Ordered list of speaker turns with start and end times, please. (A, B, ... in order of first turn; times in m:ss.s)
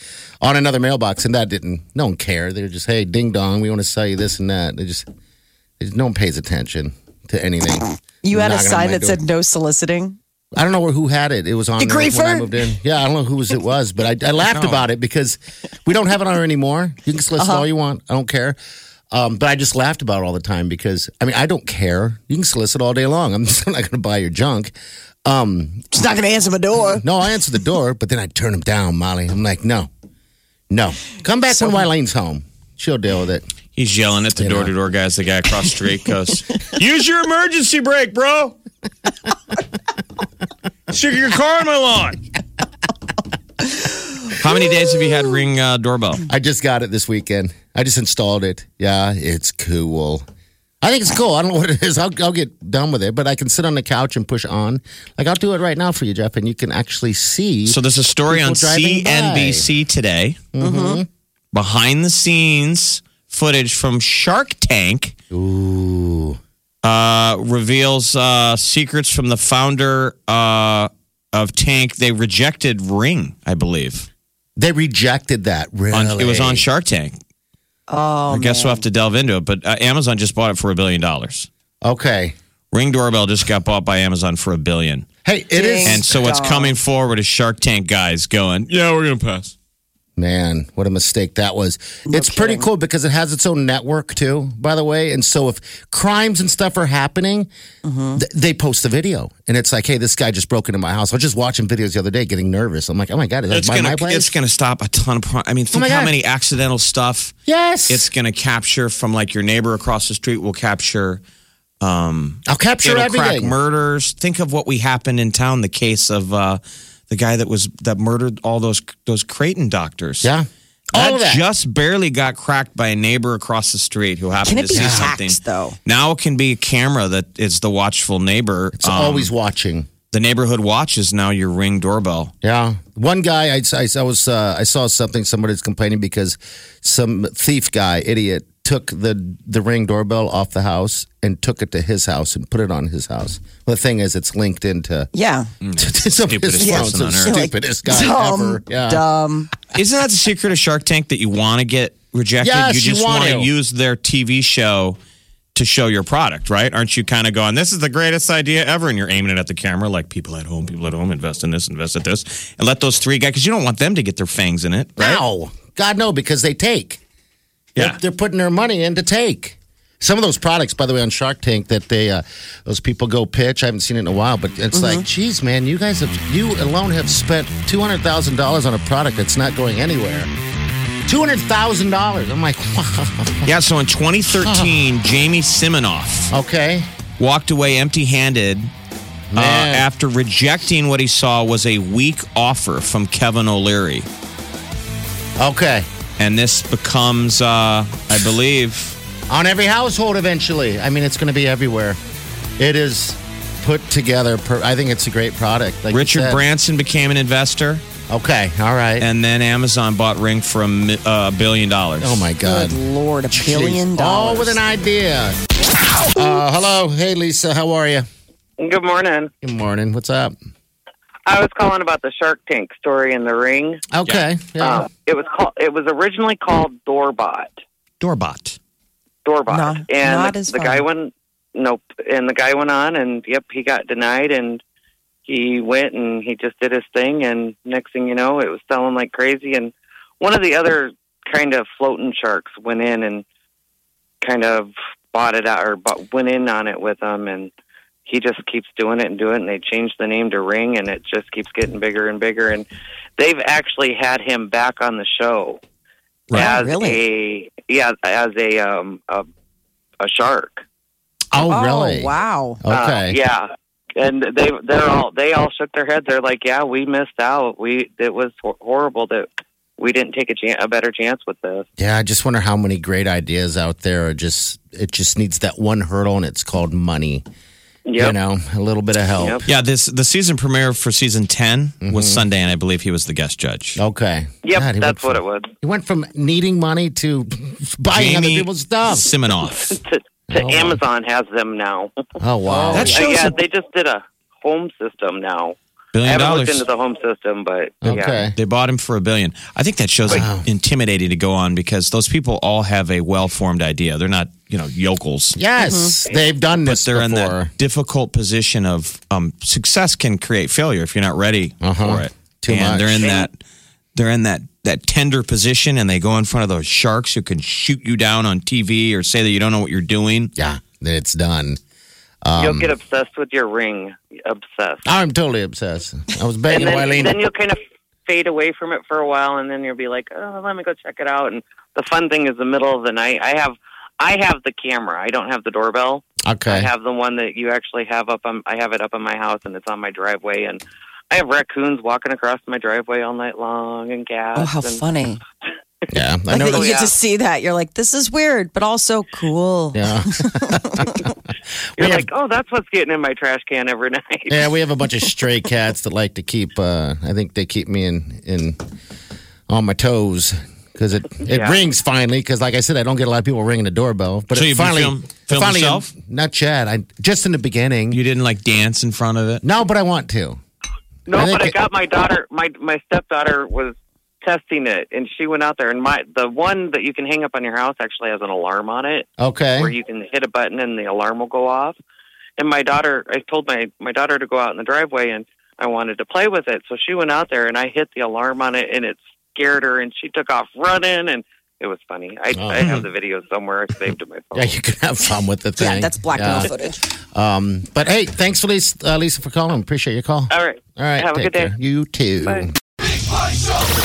0:00.4-0:05.1 A
0:05.8-0:09.2 A
0:08.2-0:10.2 B
0:10.6-0:18.6 A
0:11.8-0:12.7 B
0:14.6-0:14.9 C
0:17.4-0:17.7 B
0:19.1-0:24.7 A
0:25.3-0:25.9 A
0:25.9-0:27.0 B
0:27.0-0:29.9 A
0:30.7-0:33.5 A
0:33.8-0:38.6 C
0:34.4-0:34.7 A
0:40.9-0:42.2 C
0:44.3-0:46.3 C
0:46.3-0:50.2 A
0:50.8-0:59.7 A
0:57.6-1:00.4 C
1:00.6-1:01.1 A
1:00.6-1:01.0 B
1:01.5-1:05.2 C
1:05.3-1:06.4 A
1:06.8-1:14.1 C
1:14.6-1:16.7 A
1:15.9-1:17.2 C
1:17.9-1:18.8 B
1:18.3-1:21.5 C
1:21.8-1:22.4 A
1:22.7-1:25.1 C
1:25.2-1:26.3 A
1:25.5-1:26.8 B
1:25.8-1:29.5 C
1:30.2-1:37.5 A
1:32.1-1:32.7 B
1:37.8-1:38.2 B
1:38.2-1:44.3 A
1:43.5-1:47.4 C
1:45.7-1:46.2 A
1:47.5-1:48.1 A
1:47.9-1:51.2 C
1:51.8-2:00.3 C
1:52.5-1:53.6 A
2:00.2-2:01.4 A
2:00.9-2:09.3 C
2:04.4-2:05.8 B
2:04.8-2:05.1 A
2:08.8-2:09.9 A
2:10.1-2:12.3 C
2:12.4-2:25.1 A
2:25.1-2:25.5 B
2:25.6-2:27.4 C
2:25.8-2:29.0 A
2:26.6-2:29.5 B
2:29.8-2:35.0 C
2:32.4-2:33.5 A
2:35.6-2:45.2 C
2:45.0-2:47.0 A
2:47.8-3:00.3 A
2:54.7-2:55.0 B
3:01.1-3:03.5 A
3:03.4-3:06.3 C
3:04.4-3:04.8 A
3:06.3-3:06.9 A
3:07.2-3:08.7 C
3:09.3-3:09.9 A
3:09.4-3:14.1 C
3:15.4-3:15.9 A
3:16.2-3:19.0 C
3:19.3-3:22.0 A
3:22.6-3:26.4 A
3:25.9-3:27.8 C
3:28.1-3:29.1 A
3:29.0-3:32.3 C
3:32.0-3:32.8 A
3:32.4-3:34.6 B
3:33.3-3:35.4 A
3:36.1-3:38.0 A
3:38.6-3:39.3 D
3:39.4-3:40.3 A
3:41.3-3:43.8 D
3:43.9-3:44.8 A
3:44.6-3:47.6 D
3:48.0-3:48.6 C
3:49.2-3:54.6 D
3:49.5-3:50.9 B
3:55.2-4:03.2 D
4:04.2-4:07.5 D
4:08.1-4:12.6 D
4:13.2-4:15.6 D
4:16.3-4:17.0 B
4:16.4-4:19.3 D
4:20.0-4:20.6 D
4:21.3-4:23.2 A
4:21.4-4:22.6 B
4:22.7-4:31.6 D
4:31.8-4:37.2 A
4:37.9-4:38.2 D
4:38.0-4:39.4 A
4:39.2-4:39.4 D
4:39.5-4:43.8 C
4:41.8-4:42.2 A
4:43.8-4:49.0 A
4:44.4-4:45.5 D
4:47.9-4:49.7 C
4:49.4-4:51.9 D
4:50.3-4:50.8 A
4:52.2-4:53.0 A
4:52.5-4:53.4 B
4:52.7-4:53.1 C
4:53.0-4:58.3 D
4:55.9-4:56.7 C
4:57.8-4:58.4 A
4:58.3-5:05.4 C
5:00.1-5:00.5 A
5:05.4-5:07.5 A
5:05.6-5:05.9 B
5:06.6-5:13.4 C
5:11.6-5:13.1 A
5:13.0-5:13.3 D
5:14.0-5:20.3 C
5:20.4-5:21.6 A
5:22.2-5:22.7 A
5:22.4-5:24.8 D
5:24.9-5:27.2 A
5:26.5-5:44.8 D
5:36.2-5:36.7 A
5:44.4-5:45.2 B
5:45.9-5:46.7 A
5:46.3-5:51.1 B
5:46.5-5:47.0 D
5:49.7-5:51.0 A
5:51.8-5:52.1 A
5:51.8-5:54.4 D
5:54.3-5:58.6 A
5:59.5-6:08.0 A
6:01.3-6:01.6 D
6:04.3-6:05.9 C
6:07.9-6:09.4 C
6:09.4-6:10.4 A
6:11.1-6:19.1 D
6:11.1-6:11.6 A
6:19.2-6:19.7 A
6:19.6-6:21.8 D
6:22.4-6:34.6 D
6:32.4-6:32.9 A
6:34.4-6:36.5 A
6:35.6-6:36.8 B
6:37.2-6:42.5 A
6:40.3-6:41.5 D
6:42.2-6:42.5 D